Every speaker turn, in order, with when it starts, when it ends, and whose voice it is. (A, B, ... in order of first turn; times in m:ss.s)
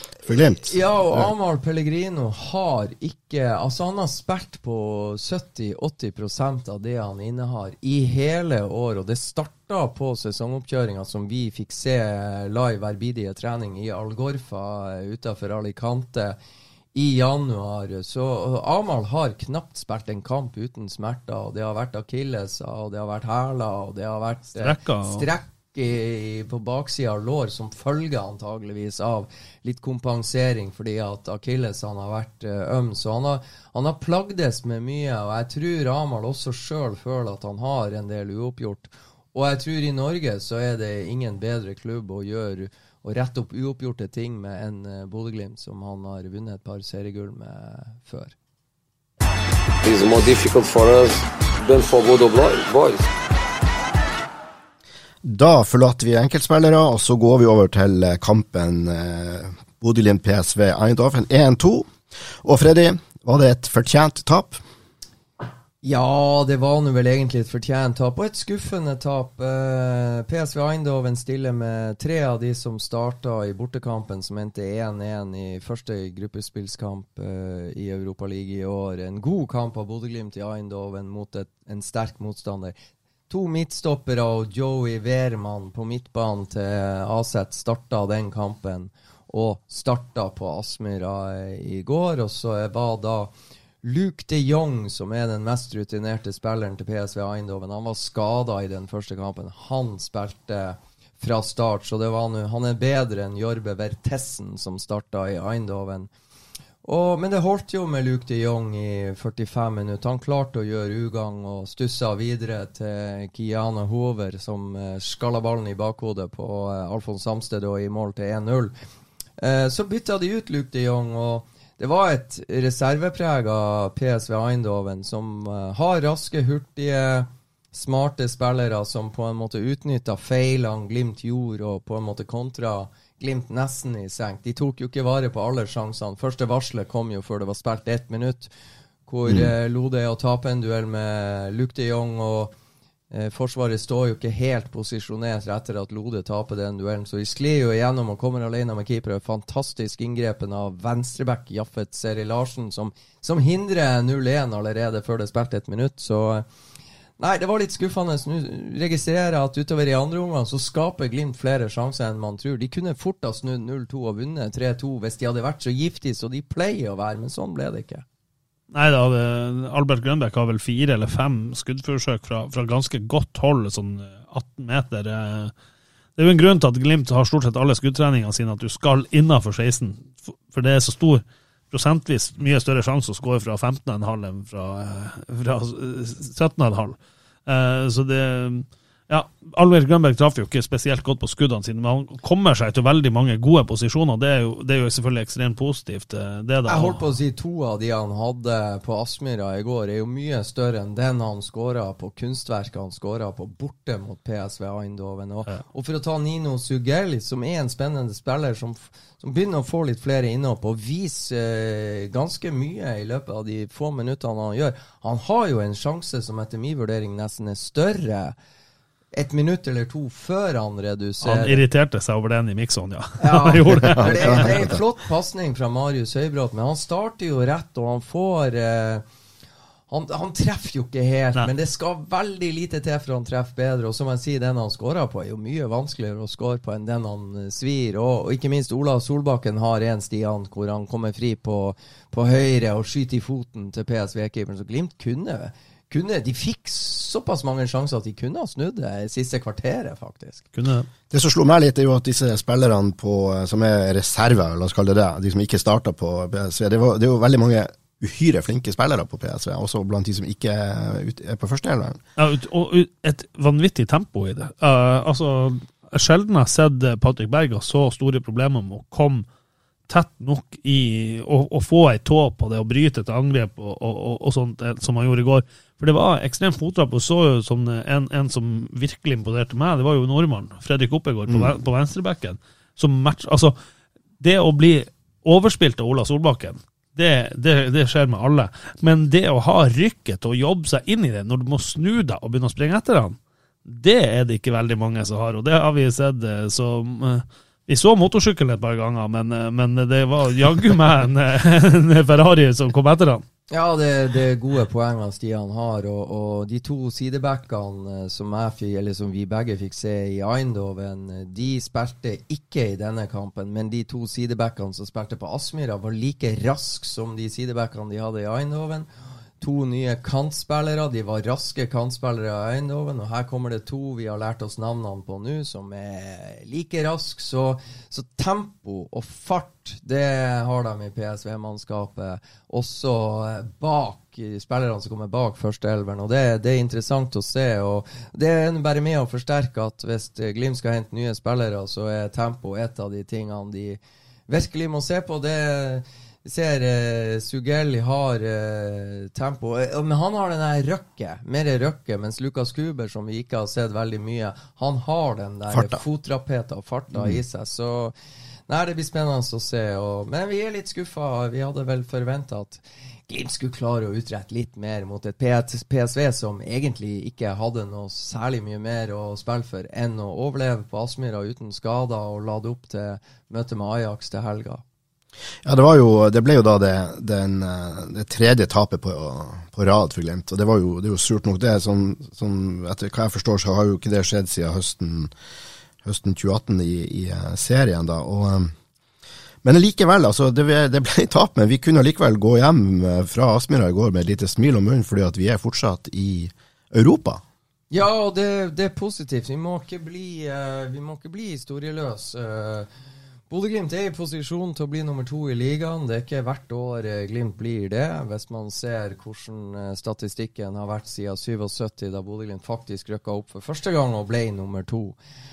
0:00.2-0:01.3 A
0:00.6-0:16.4 B
0:16.9-0:48.3 B
0:24.6-0:25.3 C
0:49.8-0:53.1 D
0:55.2-1:01.9 A
1:02.4-1:04.6 A
1:05.8-1:22.7 B
1:23.3-1:33.3 B
1:33.8-1:46.1 B
1:46.8-1:58.7 B
1:59.4-2:18.5 B
2:19.1-2:22.5 B
2:23.1-2:36.4 B
2:37.2-2:48.0 B
2:48.7-2:55.5 C
2:56.2-3:17.0 C
3:16.6-3:38.3 B
3:39.1-3:41.6 B
3:41.2-3:44.7 C
3:43.2-3:49.0 B
3:43.9-3:44.7 A
3:49.9-4:10.4 B
4:10.5-4:10.9 C
4:11.1-4:22.0 A
4:22.2-4:29.2 C
4:29.9-4:43.5 C
4:41.3-4:41.5 A
4:44.2-5:03.2 C
5:03.5-5:18.9 B
5:19.4-5:57.9 B
5:55.5-5:55.8 A
5:56.9-5:57.2 A
5:58.5-6:14.6 B
6:15.4-6:25.1 A
6:25.8-6:28.5 A
6:29.4-6:37.2 A
6:37.7-6:42.7 B
6:43.3-6:55.0 B